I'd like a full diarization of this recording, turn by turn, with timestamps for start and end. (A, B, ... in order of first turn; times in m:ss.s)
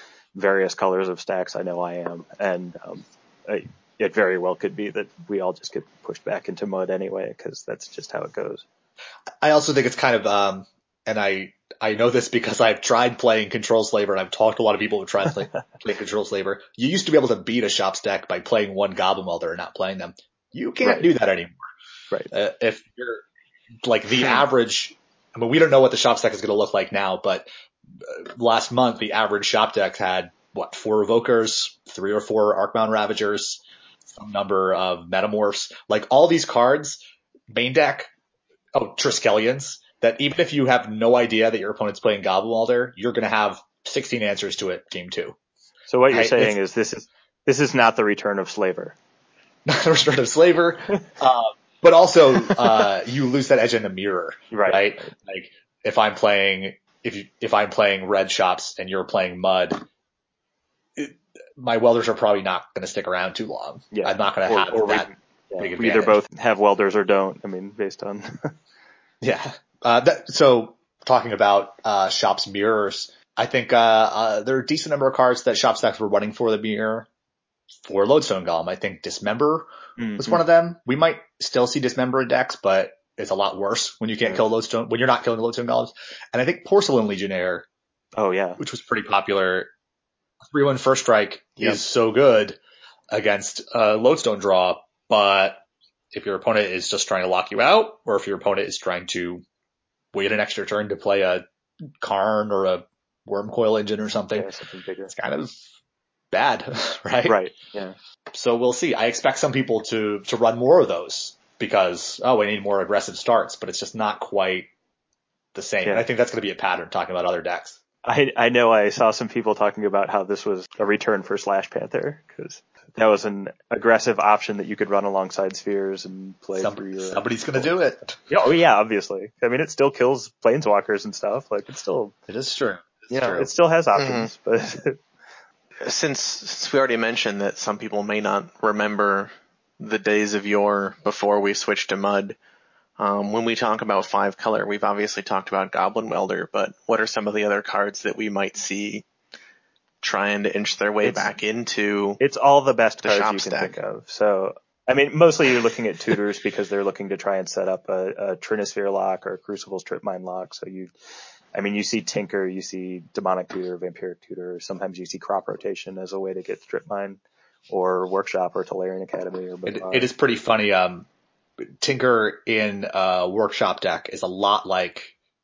0:00.4-0:08.6 A
0:09.4-0:21.6 B
0:20.8-0:21.1 A
0:22.3-0:23.2 B
0:23.8-0:27.5 B
0:28.0-0:38.1 B
0:38.8-0:45.4 B
0:45.9-0:49.0 A
0:46.1-0:46.6 B
0:49.7-0:59.8 B
0:54.5-0:55.1 A
1:01.0-1:05.1 B
1:03.9-1:08.5 A
1:05.6-1:06.2 B
1:09.2-1:17.1 B
1:17.8-1:27.7 B
1:20.0-1:20.4 A
1:28.2-1:28.6 A
1:28.6-1:29.7 B
1:30.5-1:32.6 B
1:33.1-1:39.4 B
1:40.1-1:41.4 B
1:42.0-1:44.5 B
1:44.3-1:45.1 A
1:45.1-1:45.5 B
1:46.3-1:47.4 B
1:47.2-1:48.0 A
1:48.3-1:54.7 B
1:55.6-1:57.8 B
1:58.0-2:07.7 A
2:06.6-2:08.2 B
2:08.3-2:12.2 A
2:12.3-2:13.5 B
2:13.1-2:15.0 A
2:14.0-2:14.3 C
2:15.8-2:22.4 C
2:23.0-2:29.0 C
2:30.0-2:32.2 C
2:32.2-2:40.9 A
2:33.0-2:33.8 C
2:41.6-2:50.1 A
2:49.7-2:51.1 B
2:51.6-2:55.1 B